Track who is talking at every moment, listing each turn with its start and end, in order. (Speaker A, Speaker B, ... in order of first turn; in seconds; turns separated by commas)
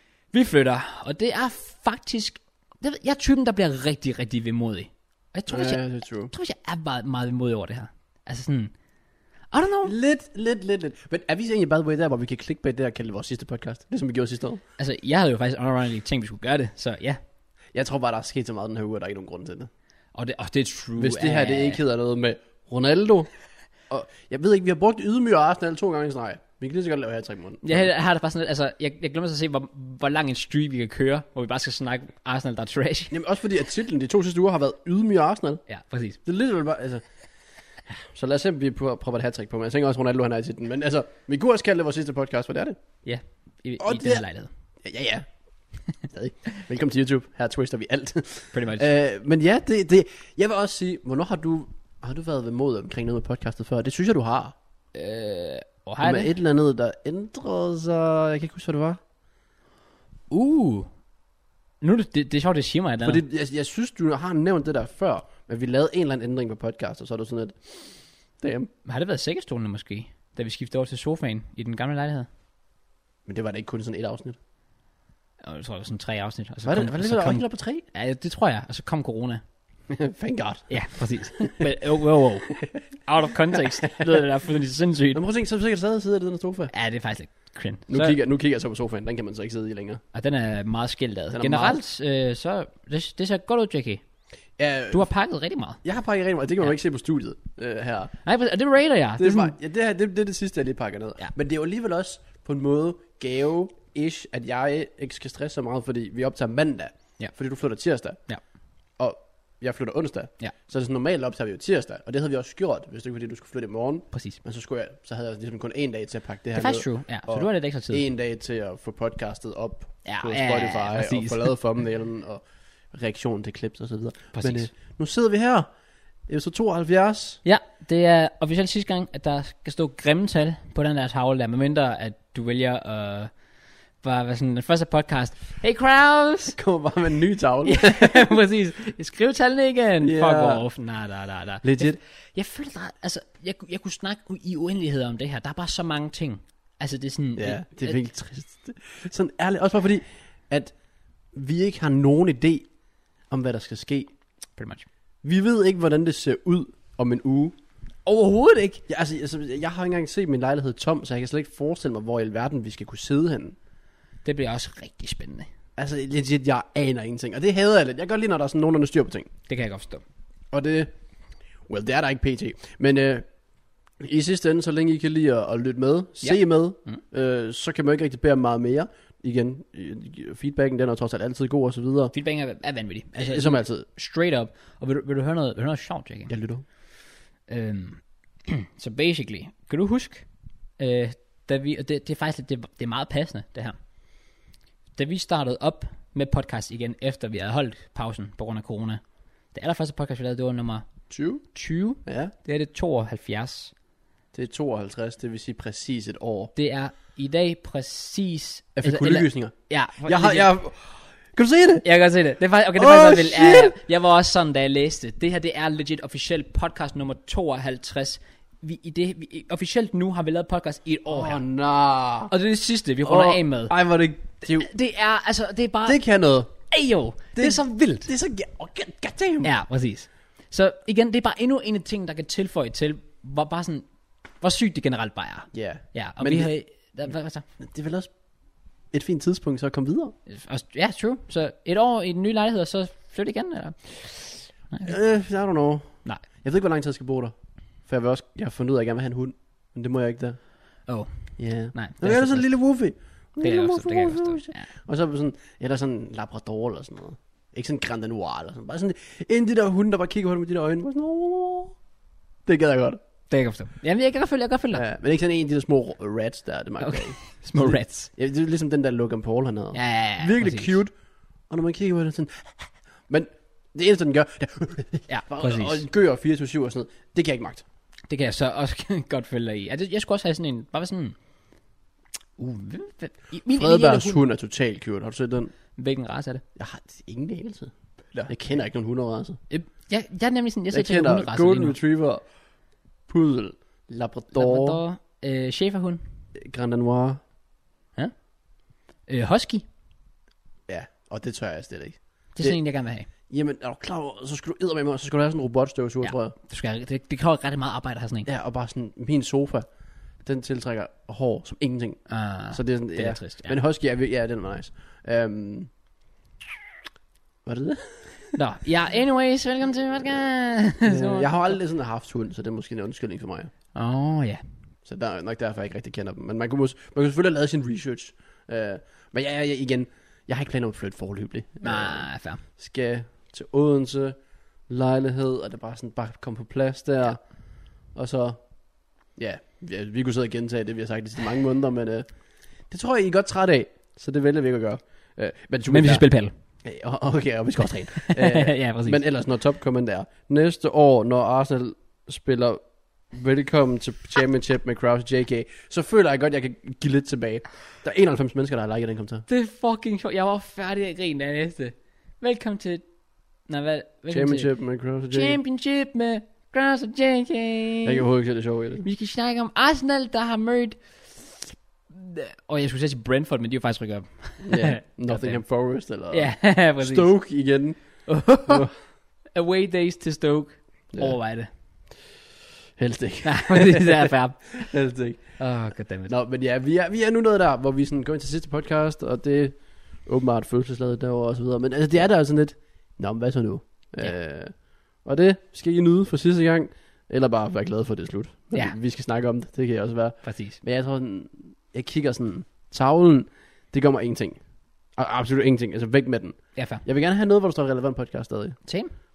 Speaker A: 0.3-8.7, Speaker B: 5.5-6.3, Speaker A: 9.5-9.9, Speaker B: 9.8-14.6, Speaker A: 14.8-17.2, Speaker B: 17.7-19.7, Speaker A: 20.1-21.8, Speaker B: 21.0-23.3, Speaker B: 23.9-27.9, Speaker A: 27.6-33.2, Speaker B: 33.1-35.6, Speaker A: 35.7-36.2, Speaker B: 36.2-37.0, Speaker B: 37.9-42.8, Speaker A: 43.0-44.5, Speaker B: 43.8-44.2, Speaker B: 44.8-45.3, Speaker B: 46.1-54.5, Speaker A: 48.5-48.9, Speaker A: 55.0-56.3, Speaker B: 56.0-59.0, Speaker A: 60.3-60.9, Speaker A: 61.8-63.2, Speaker B: 63.0-68.7, Speaker A: 68.8-72.3, Speaker B: 73.3-74.4, Speaker A: 75.4-79.4, Speaker B: 76.7-77.8, Speaker B: 79.9-80.8, Speaker A: 80.7-85.2, Speaker B: 85.1-86.7, Speaker A: 86.7-88.2, Speaker B: 87.9-90.0, Speaker A: 90.1-94.0, Speaker B: 91.3-91.8, Speaker B: 94.6-95.1, Speaker A: 94.9-95.8, Speaker B: 95.8-98.1, Speaker A: 98.2-99.5, Speaker B: 99.2-108.2, Speaker B: 109.0-122.4, Speaker A: 114.1-114.4, Speaker A: 116.5-118.0, Speaker A: 120.0-121.5, Speaker B: 122.9-125.7, Speaker A: 124.3-124.7, Speaker B: 126.3-127.4, Speaker A: 127.4-133.3, Speaker A: 134.0-136.6, Speaker B: 136.6-138.3, Speaker A: 137.7-148.0, Speaker B: 140.0-140.6, Speaker B: 141.6-142.0, Speaker B: 147.4-150.7, Speaker B: 151.3-152.7, Speaker B: 153.3-154.1, Speaker A: 154.6-154.9, Speaker B: 155.2-157.6, Speaker A: 158.1-158.8, Speaker B: 158.9-163.6, Speaker A: 164.2-165.5, Speaker B: 165.8-169.3, Speaker A: 169.5-170.0, Speaker B: 170.5-170.9, Speaker B: 171.7-173.3, Speaker B: 174.0-182.1, Speaker A: 176.2-177.0, Speaker A: 182.1-186.3, Speaker B: 183.2-183.9, Speaker B: 186.3-186.6, Speaker A: 187.5-190.3, Speaker A: 190.8-193.8, Speaker A: 194.9-199.0, Speaker A: 199.5-200.9, Speaker B: 201.1-201.4, Speaker A: 201.5-203.7, Speaker B: 202.1-202.3, Speaker B: 204.3-206.5, Speaker A: 206.6-210.5, Speaker B: 208.8-209.5, Speaker B: 210.1-211.9, Speaker A: 211.8-221.4, Speaker B: 212.8-213.8, Speaker B: 221.1-222.3, Speaker A: 222.3-223.7, Speaker B: 223.0-224.7, Speaker A: 224.4-226.0, Speaker B: 225.9-226.5, Speaker A: 226.7-228.1, Speaker B: 227.4-229.5, Speaker A: 229.4-233.9, Speaker A: 234.4-237.4, Speaker B: 235.5-236.5, Speaker B: 237.6-238.1, Speaker B: 238.9-240.2, Speaker A: 240.3-245.0, Speaker B: 244.8-247.3, Speaker B: 247.9-250.4, Speaker B: 251.4-261.8, Speaker A: 251.7-252.5, Speaker A: 253.4-254.7, Speaker B: 262.5-263.0, Speaker A: 263.3-264.8, Speaker B: 264.7-270.9, Speaker A: 266.8-268.1, Speaker A: 269.7-270.8, Speaker B: 271.5-277.6, Speaker A: 275.1-275.9, Speaker A: 278.1-281.2, Speaker A: 282.4-284.2, Speaker B: 283.5-285.5, Speaker A: 285.8-286.4, Speaker B: 286.6-289.4, Speaker A: 289.5-291.8, Speaker B: 290.7-292.3, Speaker B: 293.1-294.8, Speaker A: 294.3-296.0, Speaker B: 296.4-297.2, Speaker A: 299.1-299.7, Speaker B: 300.7-302.6, Speaker A: 302.4-303.1, Speaker B: 303.3-306.3, Speaker A: 306.0-308.3, Speaker B: 308.3-309.7, Speaker B: 310.2-315.7, Speaker A: 312.1-313.6, Speaker B: 317.5-318.4, Speaker A: 318.3-321.5, Speaker B: 320.8-323.5, Speaker A: 323.8-324.4, Speaker B: 324.9-334.2, Speaker A: 331.6-332.4, Speaker B: 334.7-337.2, Speaker B: 337.9-338.5, Speaker B: 339.1-342.1, Speaker B: 342.7-346.1, Speaker A: 345.7-346.3, Speaker B: 346.6-359.3, Speaker A: 347.9-349.0, Speaker A: 359.3-362.8, Speaker A: 363.5-364.5, Speaker B: 364.1-365.4, Speaker A: 365.1-368.0, Speaker B: 367.9-368.9, Speaker A: 368.8-375.4, Speaker B: 374.4-378.7, Speaker A: 376.1-377.2, Speaker A: 378.1-378.7, Speaker A: 379.4-381.5, Speaker B: 382.8-385.4, Speaker A: 383.2-384.7, Speaker A: 385.4-386.1, Speaker B: 386.1-404.4, Speaker A: 400.2-400.6, Speaker B: 405.0-408.6, Speaker A: 406.6-406.8, Speaker A: 408.7-408.9